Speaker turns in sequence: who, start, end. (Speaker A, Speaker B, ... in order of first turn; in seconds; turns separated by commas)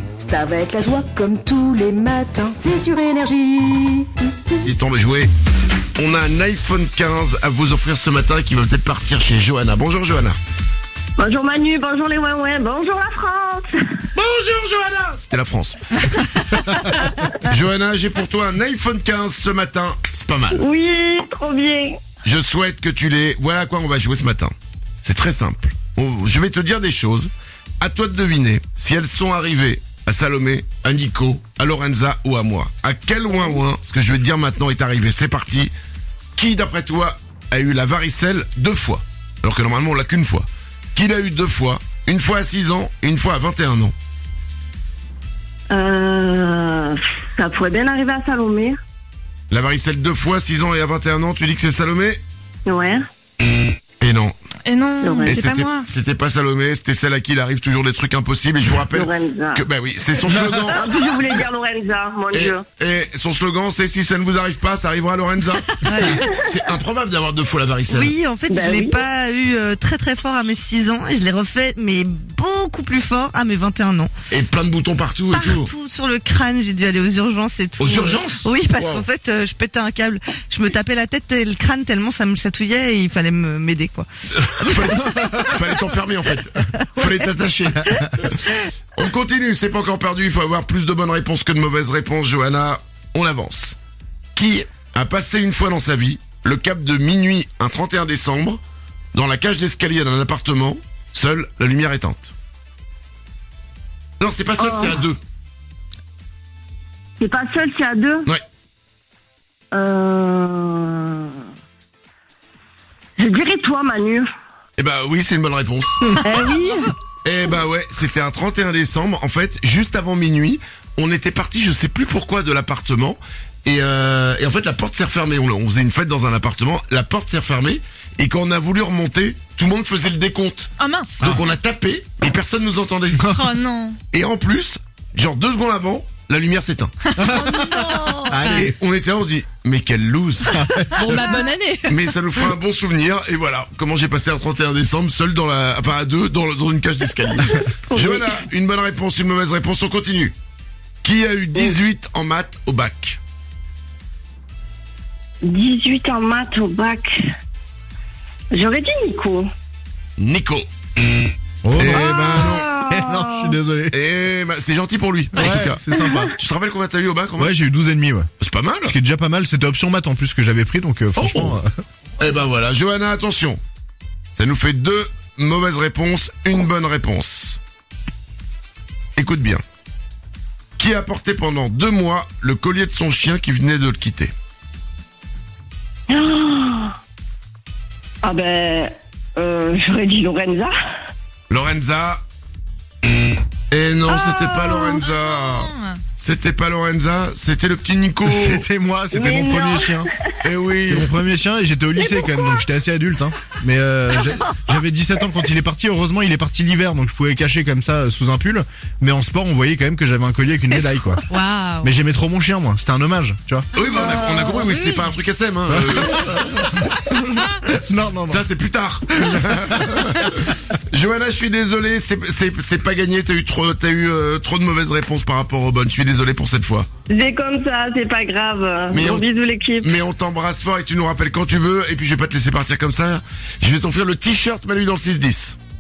Speaker A: 0.2-4.6, Speaker B: 4.6-5.3, Speaker B: 6.0-10.4, Speaker C: 11.2-13.7, Speaker B: 14.2-16.4, Speaker B: 17.4-20.6, Speaker C: 20.5-22.0, Speaker B: 22.2-35.7, Speaker B: 36.4-43.9, Speaker C: 45.7-48.8, Speaker B: 49.5-52.2, Speaker C: 52.7-53.0, Speaker B: 54.0-54.4, Speaker D: 54.7-55.9, Speaker C: 55.0-55.4, Speaker B: 55.3-60.9, Speaker C: 58.9-59.6, Speaker C: 60.7-62.6, Speaker B: 62.3-68.1, Speaker E: 65.8-66.2, Speaker C: 66.0-66.3, Speaker E: 67.9-74.1, Speaker C: 68.5-69.0, Speaker B: 74.3-75.7, Speaker E: 75.3-85.1, Speaker B: 77.8-79.0, Speaker B: 84.3-93.8, Speaker B: 94.3-98.6, Speaker B: 99.1-102.3, Speaker B: 104.2-105.2, Speaker C: 104.6-105.0, Speaker C: 107.2-108.3, Speaker C: 109.7-111.3, Speaker C: 113.2-114.3, Speaker B: 114.8-116.2, Speaker C: 116.2-116.9, Speaker B: 117.2-133.3, Speaker D: 130.8-131.4, Speaker F: 133.2-133.5, Speaker D: 133.3-134.0, Speaker B: 134.1-136.9, Speaker F: 137.2-138.7, Speaker E: 137.3-138.4, Speaker B: 138.5-140.7, Speaker F: 140.5-141.4, Speaker D: 140.8-142.2, Speaker B: 141.9-150.3, Speaker C: 147.9-148.4, Speaker B: 151.0-153.2, Speaker C: 155.4-157.2, Speaker C: 158.5-159.5, Speaker B: 160.2-160.7, Speaker F: 161.6-163.9, Speaker B: 161.8-162.7, Speaker C: 161.9-163.6, Speaker B: 163.9-165.8, Speaker F: 165.4-166.3, Speaker B: 166.3-167.6, Speaker F: 167.4-168.3, Speaker B: 168.4-169.0, Speaker F: 168.8-171.7, Speaker B: 171.2-171.6, Speaker B: 172.2-173.6, Speaker B: 174.3-177.6, Speaker B: 179.2-179.6, Speaker B: 180.8-184.3, Speaker C: 186.1-186.9, Speaker C: 188.2-190.7, Speaker B: 191.5-192.2, Speaker B: 193.7-198.7, Speaker C: 194.1-195.0, Speaker D: 194.8-196.0, Speaker F: 198.2-200.1, Speaker C: 199.1-200.0, Speaker B: 200.4-201.1, Speaker F: 200.9-211.2, Speaker C: 202.2-202.5, Speaker D: 211.3-211.9, Speaker F: 211.8-213.7, Speaker B: 213.7-216.8, Speaker D: 214.7-215.0, Speaker F: 215.7-218.4, Speaker B: 218.3-226.9, Speaker F: 219.4-219.9, Speaker C: 227.1-229.9, Speaker B: 228.9-229.3, Speaker B: 229.8-235.6